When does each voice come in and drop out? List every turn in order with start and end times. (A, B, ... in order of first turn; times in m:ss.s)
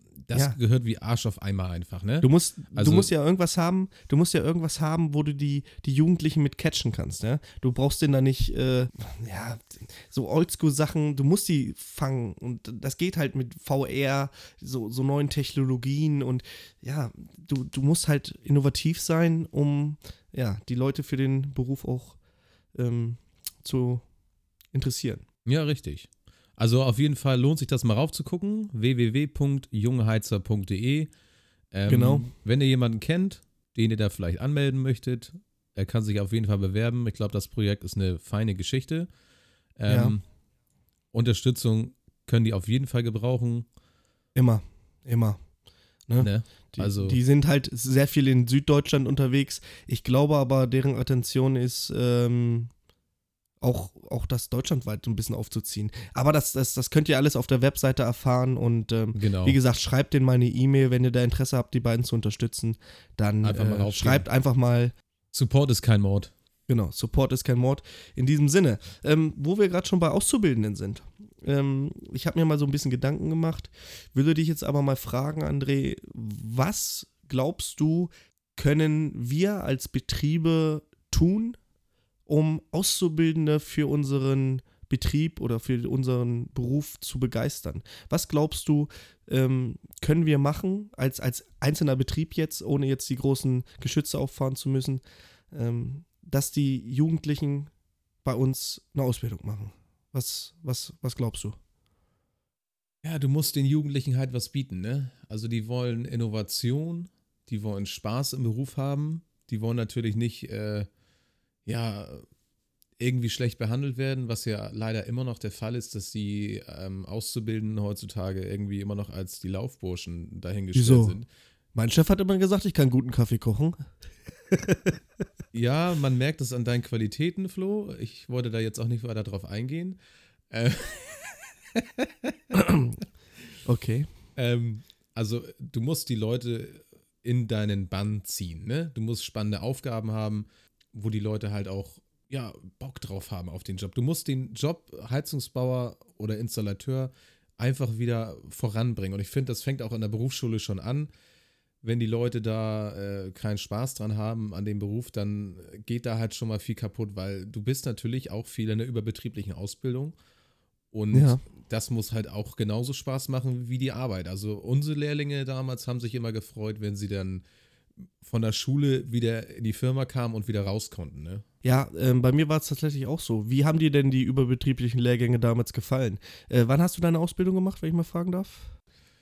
0:00.2-0:03.1 A
0:02.2-0:22.2 B
0:22.8-0:24.0 B
0:24.7-0:25.2 B
0:25.4-0:31.1 A
0:31.7-0:39.1 A
0:31.9-0:32.3 B
0:39.8-0:40.2 A
0:39.9-0:40.2 B
0:41.1-0:43.7 A
0:44.3-0:45.4 B
0:46.1-0:52.7 B
0:46.2-0:47.2 A
0:53.6-1:04.9 B
0:59.1-0:59.6 A
1:03.4-1:04.2 A
1:05.3-1:06.3 A
1:06.7-1:21.6 B
1:22.3-1:35.0 B
1:35.5-1:37.7 B
1:38.2-1:41.6 B
1:43.0-1:50.9 A
1:51.6-1:52.2 A
1:53.0-2:01.3 A
2:00.7-2:01.2 B
2:01.7-2:03.8 B
2:04.5-2:05.0 B
2:05.5-2:10.0 A
2:10.5-2:12.6 A
2:12.5-2:12.9 B
2:13.6-2:14.1 B
2:14.4-2:31.1 A
2:31.8-2:40.2 A
2:40.9-2:47.4 A
2:41.1-2:41.4 B
2:48.2-2:51.4 A
2:51.6-2:58.7 B